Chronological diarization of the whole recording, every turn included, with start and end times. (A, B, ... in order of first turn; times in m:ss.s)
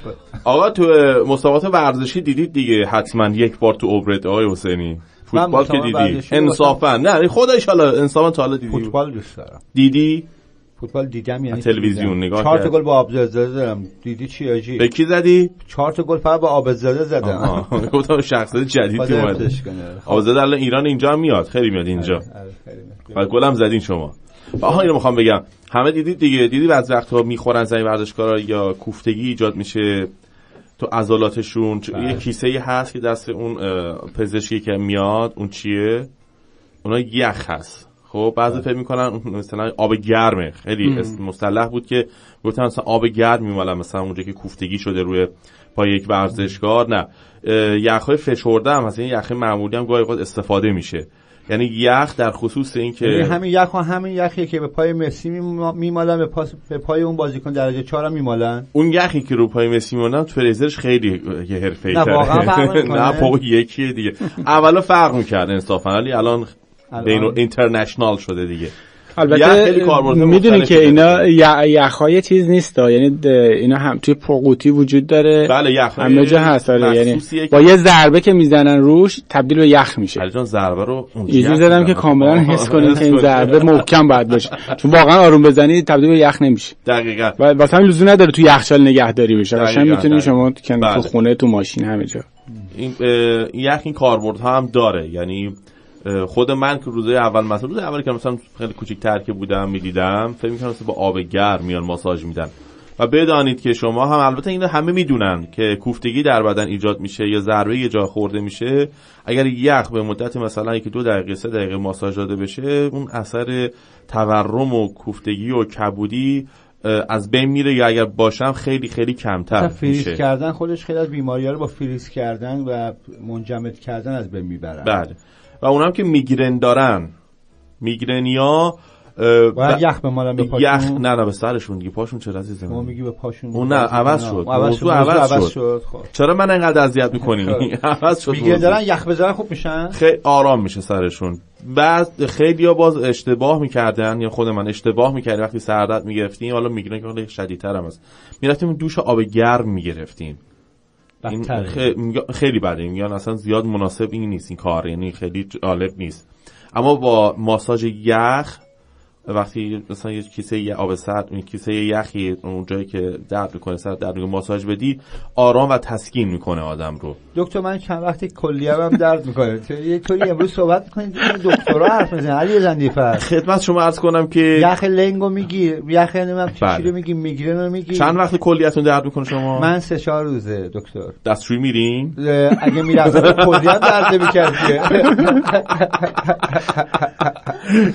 0:00.4-0:09.0 A
0:05.3-0:06.8 B
0:08.7-0:09.6 B
0:09.7-0:10.2 A
0:10.8-0:14.9 B
0:11.5-0:12.8 A
0:14.8-0:15.5 A
0:15.7-0:17.7 B
0:17.2-0:19.5 A
0:19.0-0:20.3 B
0:20.1-0:22.2 A
0:22.0-0:23.3 B
0:23.1-0:30.1 A
0:30.8-0:36.1 A
0:31.9-0:32.3 B
0:36.8-0:53.4 A
0:40.8-0:41.2 C
0:53.0-0:58.7 B
0:58.7-1:11.3 A
1:01.9-1:03.4 B
1:06.9-1:07.4 B
1:09.2-1:20.2 C
1:15.4-1:17.8 A
1:20.2-1:23.9 A
1:21.3-1:26.8 C
1:26.8-1:27.4 A
1:27.4-1:32.2 C
1:29.5-1:31.1 A
1:32.7-2:00.2 A
1:59.5-2:05.0 B
2:04.8-2:07.1 A
2:07.8-2:09.8 A
2:09.6-2:11.0 B
2:10.4-2:13.0 A
2:12.7-2:16.1 B
2:13.5-2:15.5 A
2:16.1-2:18.8 A
2:17.2-2:17.7 B
2:18.3-2:20.0 B
2:19.9-2:30.4 A
2:31.2-2:31.9 B
2:31.3-2:38.6 A
2:39.3-2:47.2 A
2:47.4-2:53.2 B
2:53.2-2:54.7 A
2:54.6-2:58.2 B
2:56.6-2:56.9 A
2:57.9-2:59.7 A
2:59.6-3:01.2 B
3:01.2-3:02.2 A
3:02.2-3:07.5 B
3:02.8-3:05.1 A